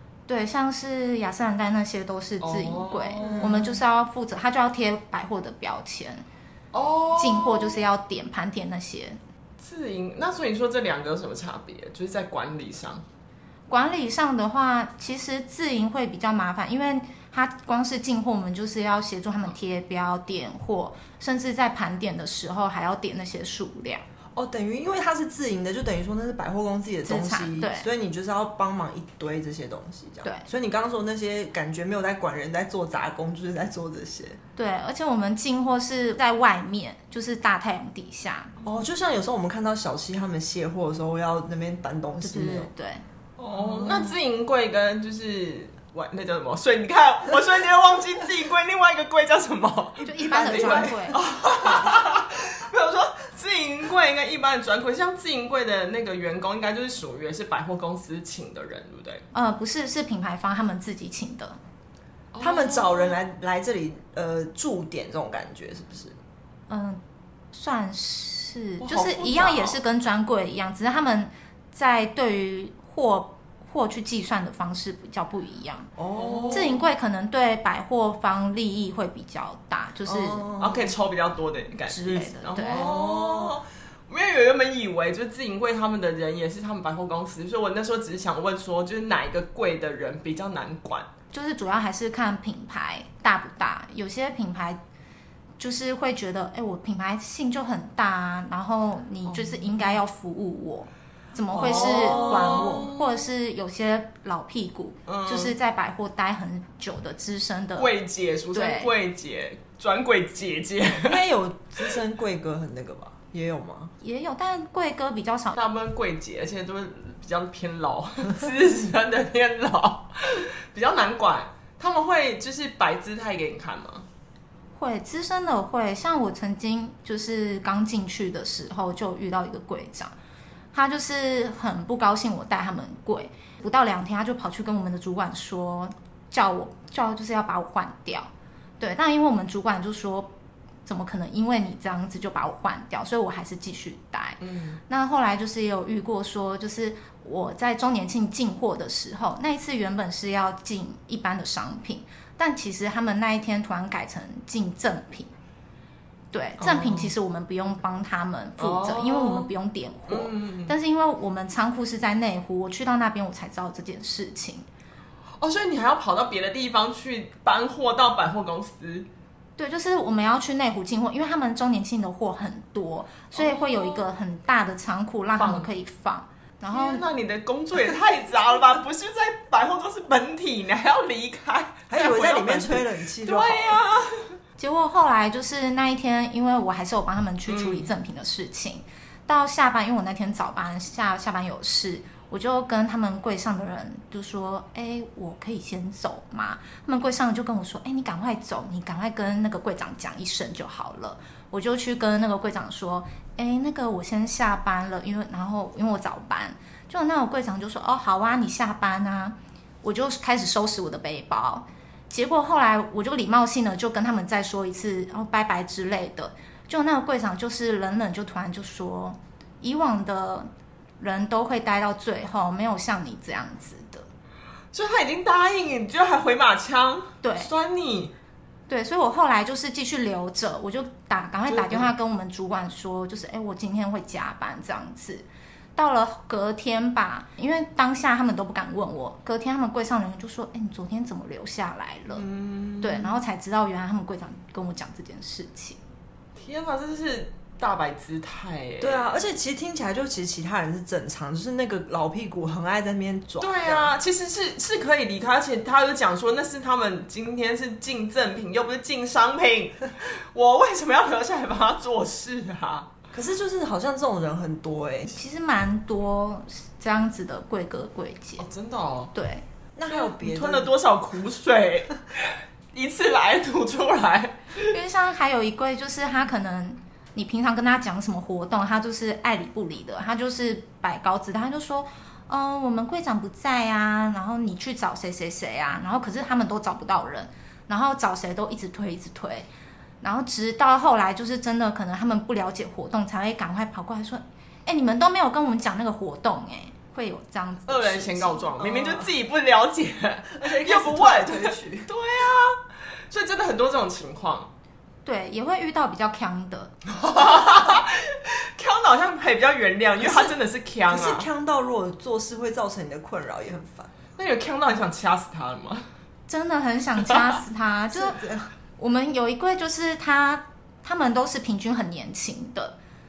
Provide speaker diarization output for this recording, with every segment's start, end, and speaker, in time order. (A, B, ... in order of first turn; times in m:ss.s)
0:00.3-0:06.2 A
0:02.4-0:03.6 B
0:03.2-0:03.8 C
0:06.7-0:07.8 B
0:07.1-0:09.2 A
0:09.6-0:13.0 B
0:13.7-0:24.0 A
0:24.3-0:34.4 C
0:27.0-0:27.9 A
0:34.6-0:38.5 A
0:38.6-0:42.7 C
0:42.2-0:43.0 A
0:43.4-0:59.2 B
0:43.5-0:44.2 C
0:50.0-0:51.2 A
0:50.0-0:52.0 C
0:59.3-1:01.6 A
1:02.3-1:03.2 B
1:02.4-1:06.1 C
1:06.7-1:07.0 A
1:07.5-1:15.9 A
1:08.8-1:09.8 B
1:16.0-1:16.8 C
1:16.1-1:16.8 B
1:16.5-1:20.5 A
1:20.1-1:20.9 C
1:20.6-1:31.1 B
1:21.9-1:22.9 A
1:22.6-1:23.6 C
1:31.3-1:34.8 A
1:35.6-1:47.9 A
1:41.5-1:42.9 C
1:41.5-1:43.1 B
1:45.1-1:45.5 B
1:47.8-1:51.2 B
1:48.5-1:48.9 A
1:51.0-1:53.9 C
1:54.0-1:55.6 A
1:55.5-2:04.1 B
2:04.8-2:10.1 A
2:10.7-2:18.3 A
2:18.8-2:20.3 A
2:20.8-2:35.3 A
2:24.4-2:24.8 B
2:36.3-2:44.6 A
2:36.6-2:37.1 B
2:38.6-2:39.5 B
2:40.1-2:40.7 B
2:45.4-2:49.1 B
2:49.6-2:57.0 A
2:53.4-2:54.0 B
2:55.4-2:55.7 B
2:56.7-3:04.3 B
3:01.9-3:03.8 C
3:04.6-3:40.5 A
3:07.5-3:07.9 B
3:41.0-3:44.1 A
3:44.7-3:48.1 B
3:47.2-3:47.5 A
3:48.7-3:55.2 A
3:51.5-3:51.9 B
3:55.8-4:02.2 A
4:02.1-4:03.1 B
4:02.8-4:05.8 A
4:06.4-4:09.1 B
4:08.8-4:13.9 C
4:13.4-4:22.9 B
4:23.1-4:25.1 C
4:25.1-4:28.5 A
4:28.4-4:29.1 B
4:29.1-4:29.4 A
4:29.8-4:30.7 C
4:29.9-4:34.8 B
4:34.7-4:49.5 A
4:50.0-4:58.6 A
4:57.7-5:04.5 B
4:58.6-4:59.1 C
5:00.4-5:01.9 C
5:05.0-5:06.7 A
5:06.9-5:11.2 B
5:10.0-5:10.4 C
5:10.9-5:13.9 C
5:14.2-5:15.9 B
5:16.3-5:18.2 A
5:17.9-5:18.5 C
5:18.8-5:22.7 A